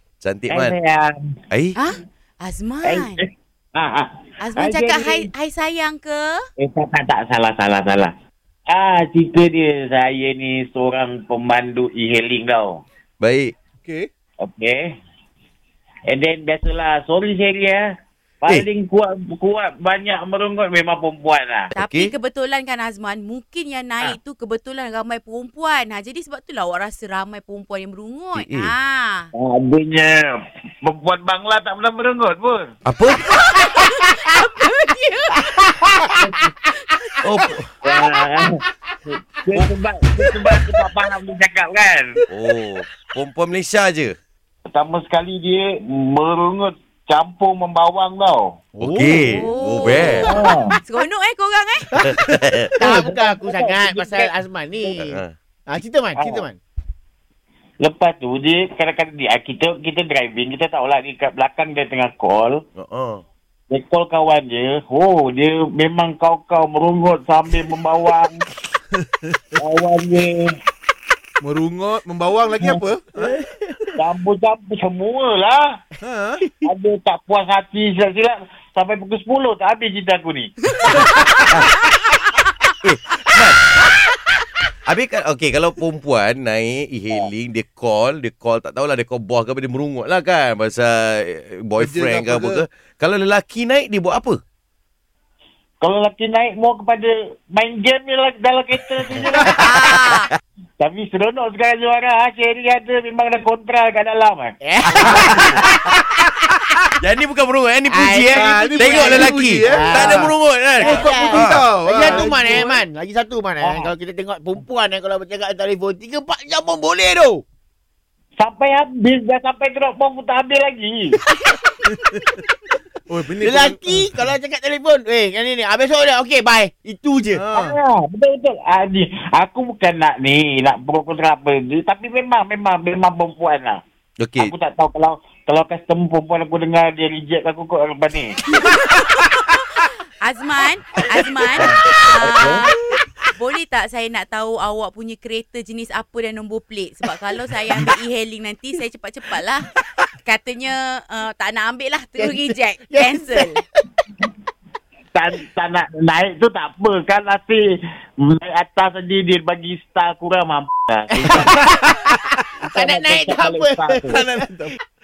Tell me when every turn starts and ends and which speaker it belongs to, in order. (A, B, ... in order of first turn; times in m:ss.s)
0:00.2-0:00.8 A
0:00.5-0:01.2 B
0:01.5-0:01.8 A
0:01.8-0:03.2 C
0:02.8-0:05.3 B
0:04.4-0:06.4 C
0:06.6-0:08.1 B
0:08.7-0:12.8 B
0:13.2-0:13.5 A
0:13.8-0:14.1 D
0:14.4-0:14.9 B
0:16.1-0:17.8 B
0:18.4-0:21.7 B
0:21.7-0:22.1 A
0:21.7-0:29.3 C
0:28.3-0:28.7 A
0:29.3-0:32.7 B
0:32.8-0:33.3 A
0:33.3-0:35.7 C
0:35.9-0:36.4 B
0:35.9-0:36.5 E
0:37.2-0:37.7 A
0:37.8-0:42.2 B
0:42.3-0:44.2 A
0:44.7-0:48.6 B
0:48.8-0:49.4 E
0:48.8-0:50.3 A
0:49.2-0:51.9 C
0:50.2-0:50.7 B
0:52.0-0:52.7 A
0:52.8-0:56.6 E
0:52.8-0:55.0 B
0:55.0-0:55.3 A
0:56.2-0:56.5 B
0:57.8-1:02.6 B
1:02.8-1:03.2 A
1:03.7-1:08.4 B
1:09.6-1:10.5 B
1:11.4-1:13.3 D
1:14.0-1:15.7 B
1:16.0-1:16.5 D
1:16.6-1:20.5 B
1:20.9-1:21.7 A
1:22.8-1:23.7 A
1:24.8-1:34.4 A
1:31.8-1:32.6 D
1:35.8-1:39.6 B
1:39.5-1:40.3 C
1:40.8-1:44.6 B
1:44.6-1:46.8 E
1:44.9-1:45.3 A
1:45.2-1:45.5 B
1:47.0-1:51.6 A
1:47.8-1:57.4 E
1:48.3-1:50.3 D
1:50.8-1:52.8 D
1:52.0-1:52.6 B
1:53.6-1:53.9 B
1:58.4-2:01.2 B
2:03.1-2:04.3 D
2:03.4-2:07.5 E
2:07.3-2:07.8 D
2:07.5-2:13.8 B
2:14.2-2:14.5 A
2:14.4-2:18.4 B
2:18.6-2:29.7 C
2:21.5-2:22.6 B
2:30.2-2:33.6 C
2:32.2-2:33.6 E
2:35.1-2:37.6 B
2:38.2-2:41.6 B
2:41.2-2:44.6 E
2:42.6-2:44.2 B
2:44.1-2:44.7 D